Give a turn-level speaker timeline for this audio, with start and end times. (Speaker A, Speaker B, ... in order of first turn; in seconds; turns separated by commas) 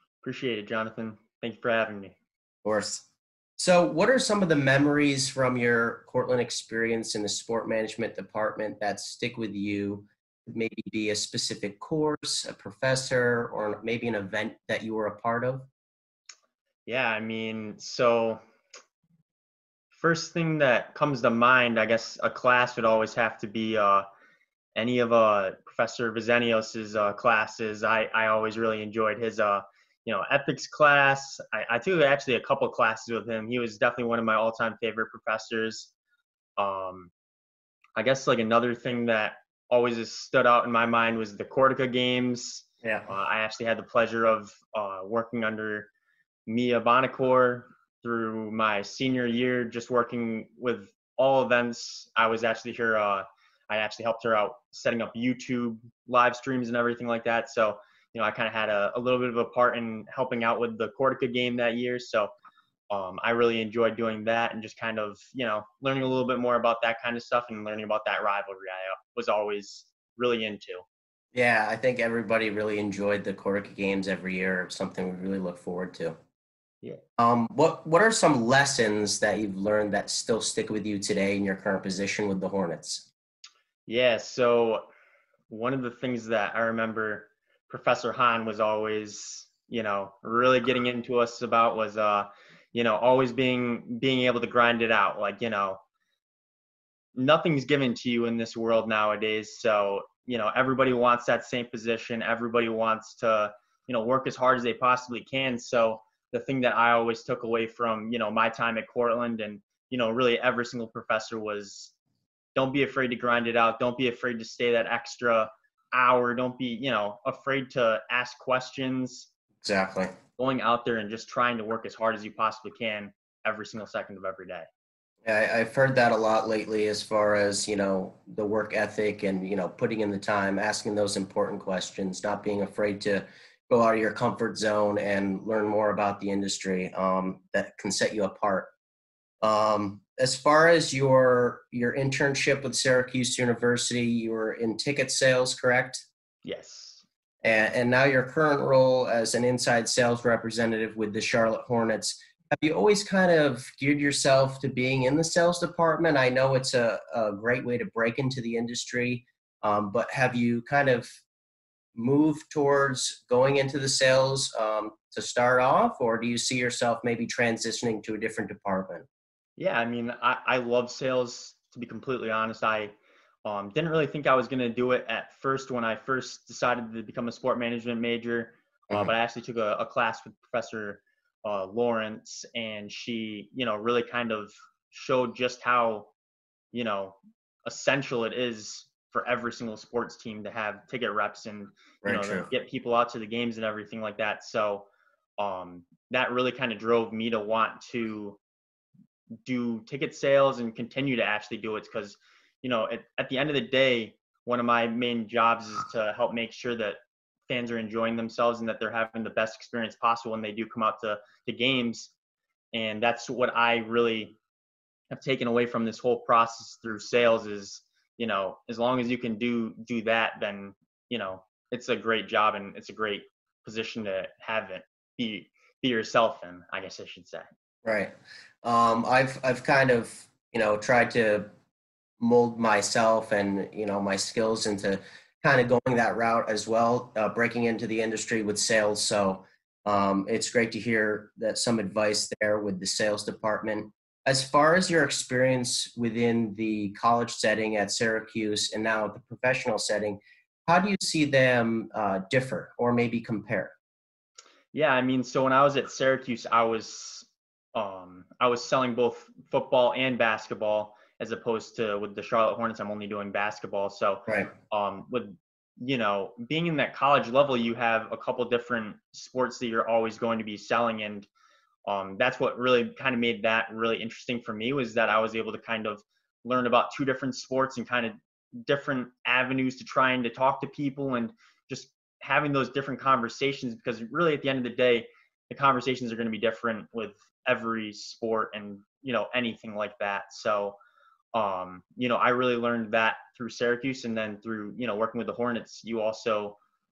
Speaker A: 0.2-2.1, Speaker B: 2.6-15.7, Speaker A: 16.9-18.4, Speaker A: 19.9-24.0, Speaker A: 24.7-35.9, Speaker A: 36.6-37.1, Speaker A: 38.0-45.9, Speaker B: 42.8-43.1, Speaker A: 46.5-62.3, Speaker A: 62.9-70.8, Speaker B: 71.3-76.2, Speaker B: 77.2-83.1, Speaker A: 83.9-84.9, Speaker A: 85.5-95.8, Speaker A: 97.1-111.9, Speaker A: 112.5-119.3, Speaker B: 119.6-120.1, Speaker A: 120.4-124.7, Speaker B: 125.2-138.7, Speaker B: 139.4-146.0, Speaker A: 146.4-147.0, Speaker B: 147.4-161.2, Speaker B: 161.9-169.1, Speaker A: 169.6-172.9, Speaker A: 173.4-186.1, Speaker A: 186.7-194.8, Speaker B: 192.0-192.5, Speaker A: 195.4-198.4, Speaker A: 199.4-212.1, Speaker A: 212.7-214.3, Speaker A: 215.1-227.5, Speaker B: 227.8-231.5, Speaker B: 232.2-253.7, Speaker A: 254.7-271.3, Speaker B: 264.3-264.5, Speaker A: 271.9-290.8, Speaker A: 291.3-296.6